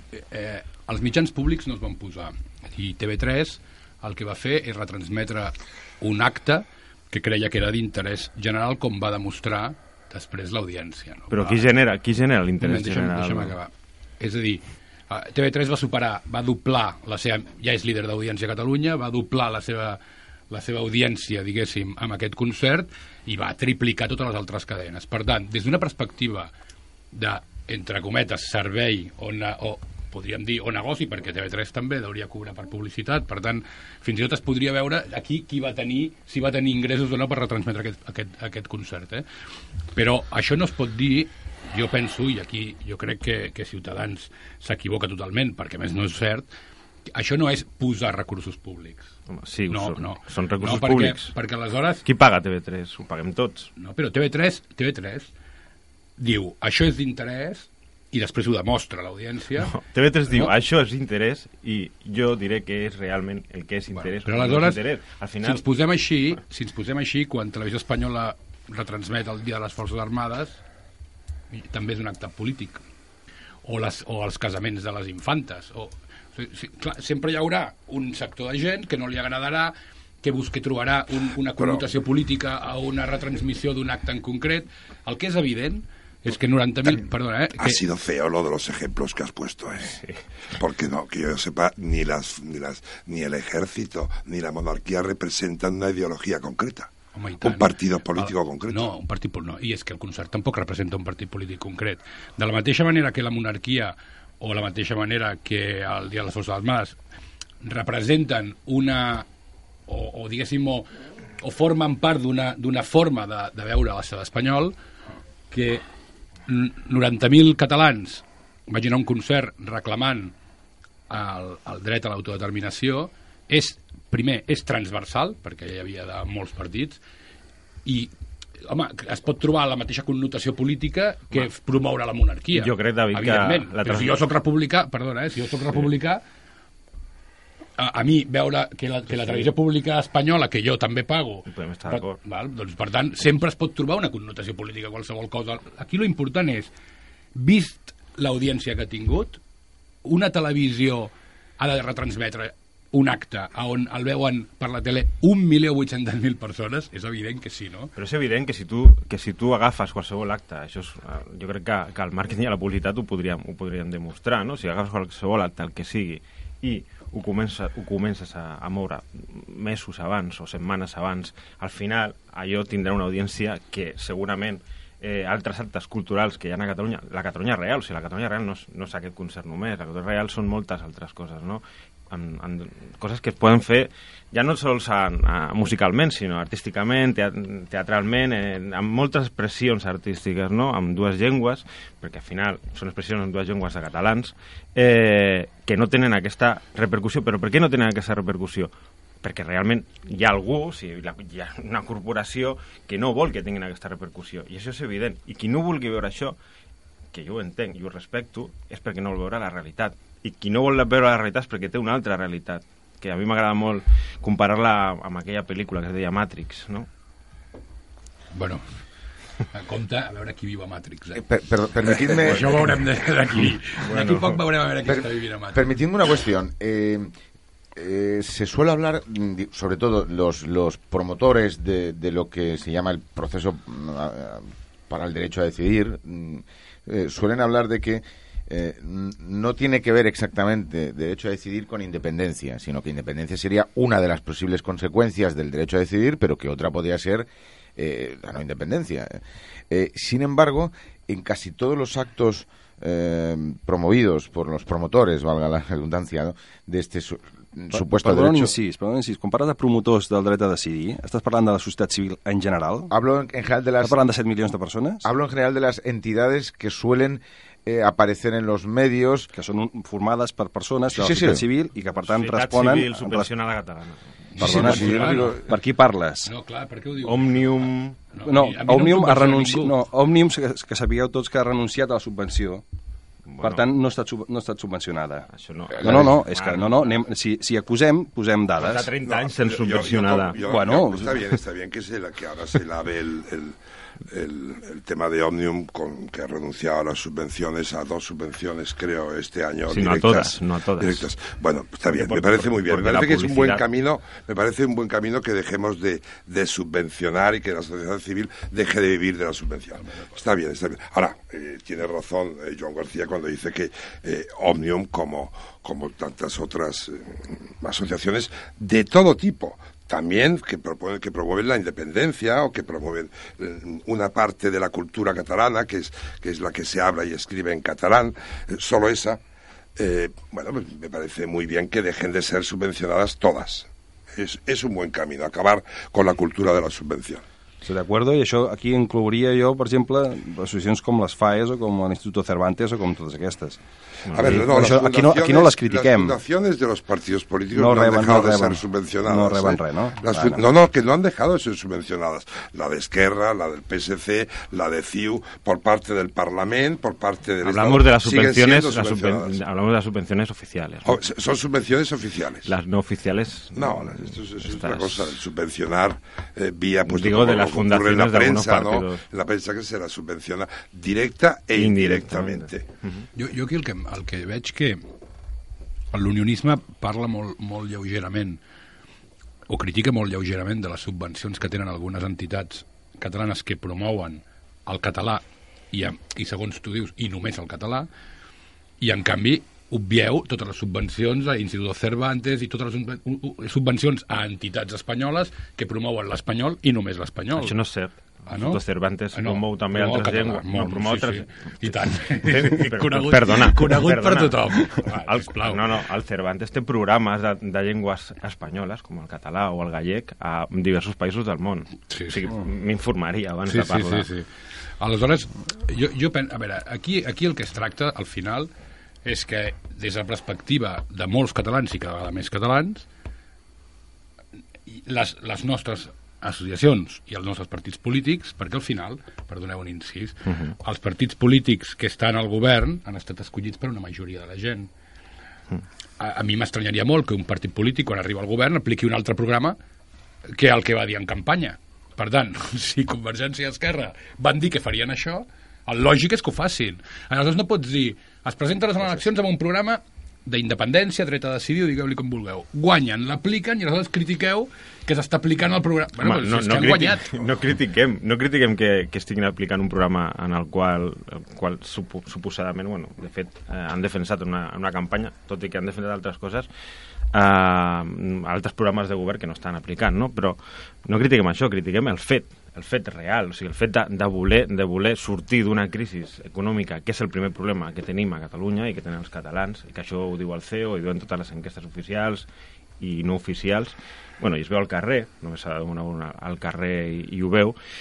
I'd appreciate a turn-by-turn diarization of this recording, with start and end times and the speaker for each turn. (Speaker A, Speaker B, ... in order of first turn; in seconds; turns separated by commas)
Speaker A: 0.1-11.7, Speaker B: 11.3-13.6, Speaker A: 12.6-26.5, Speaker A: 27.1-39.3, Speaker A: 39.9-46.5, Speaker A: 47.1-49.1, Speaker B: 49.3-51.3, Speaker A: 49.7-52.0, Speaker B: 52.0-53.7, Speaker A: 53.8-55.3, Speaker A: 56.2-59.7, Speaker B: 59.6-65.7, Speaker A: 63.9-64.8, Speaker A: 65.4-70.6, Speaker A: 71.5-72.8, Speaker A: 73.6-87.8, Speaker C: 81.6-81.8, Speaker C: 87.6-90.0, Speaker C: 90.6-98.9, Speaker A: 97.1-107.0, Speaker A: 107.6-109.3, Speaker A: 109.9-110.9, Speaker A: 111.4-114.8, Speaker A: 115.5-115.8, Speaker A: 116.5-120.3, Speaker A: 121.1-127.0, Speaker A: 127.8-128.1, Speaker A: 128.7-136.2, Speaker B: 132.5-134.2, Speaker A: 137.8-146.7, Speaker B: 139.2-139.5, Speaker B: 141.5-142.2, Speaker A: 147.3-149.4, Speaker A: 150.0-157.9, Speaker B: 158.0-198.7, Speaker B: 199.2-206.4, Speaker B: 207.1-216.9, Speaker A: 218.3-218.6, Speaker A: 219.5-221.2, Speaker D: 221.1-222.7, Speaker A: 221.8-225.7, Speaker B: 223.9-224.4, Speaker D: 224.8-227.1, Speaker D: 227.8-258.6, Speaker E: 257.7-262.9, Speaker D: 262.9-264.0, Speaker E: 263.8-265.0, Speaker D: 265.0-269.3, Speaker E: 269.3-273.3, Speaker D: 270.9-271.4, Speaker B: 272.0-274.0, Speaker A: 274.4-275.4, Speaker E: 274.4-276.3, Speaker B: 274.5-274.8, Speaker D: 274.6-275.1, Speaker A: 276.3-279.8, Speaker B: 277.0-278.0, Speaker E: 278.2-282.6, Speaker B: 283.3-283.6, Speaker E: 283.4-285.3, Speaker B: 285.3-287.0, Speaker E: 285.8-288.9, Speaker B: 288.6-290.4, Speaker C: 289.0-293.6, Speaker E: 290.4-291.1, Speaker C: 294.1-329.2, Speaker B: 299.7-301.1, Speaker B: 301.9-303.6, Speaker C: 329.8-337.2, Speaker E: 337.6-343.6, Speaker B: 344.1-344.4, Speaker C: 344.1-359.4, Speaker E: 344.2-346.2, Speaker E: 347.5-350.4, Speaker B: 357.4-361.0, Speaker C: 360.9-362.5, Speaker B: 362.4-365.2, Speaker C: 363.6-372.6, Speaker B: 366.9-369.0, Speaker B: 371.5-373.1, Speaker A: 373.2-374.8, Speaker A: 375.9-378.4, Speaker A: 379.5-387.9, Speaker A: 388.8-397.6, Speaker B: 397.4-414.1, Speaker A: 398.3-398.6, Speaker A: 399.1-405.6, Speaker A: 411.9-412.2, Speaker A: 413.5-414.3, Speaker A: 414.8-418.5, Speaker A: 419.1-422.9, Speaker A: 424.7-434.7, Speaker B: 430.3-430.5, Speaker A: 436.0-439.6, Speaker A: 440.4-457.2, Speaker B: 456.0-466.5, Speaker B: 467.1-482.2, Speaker B: 482.8-487.6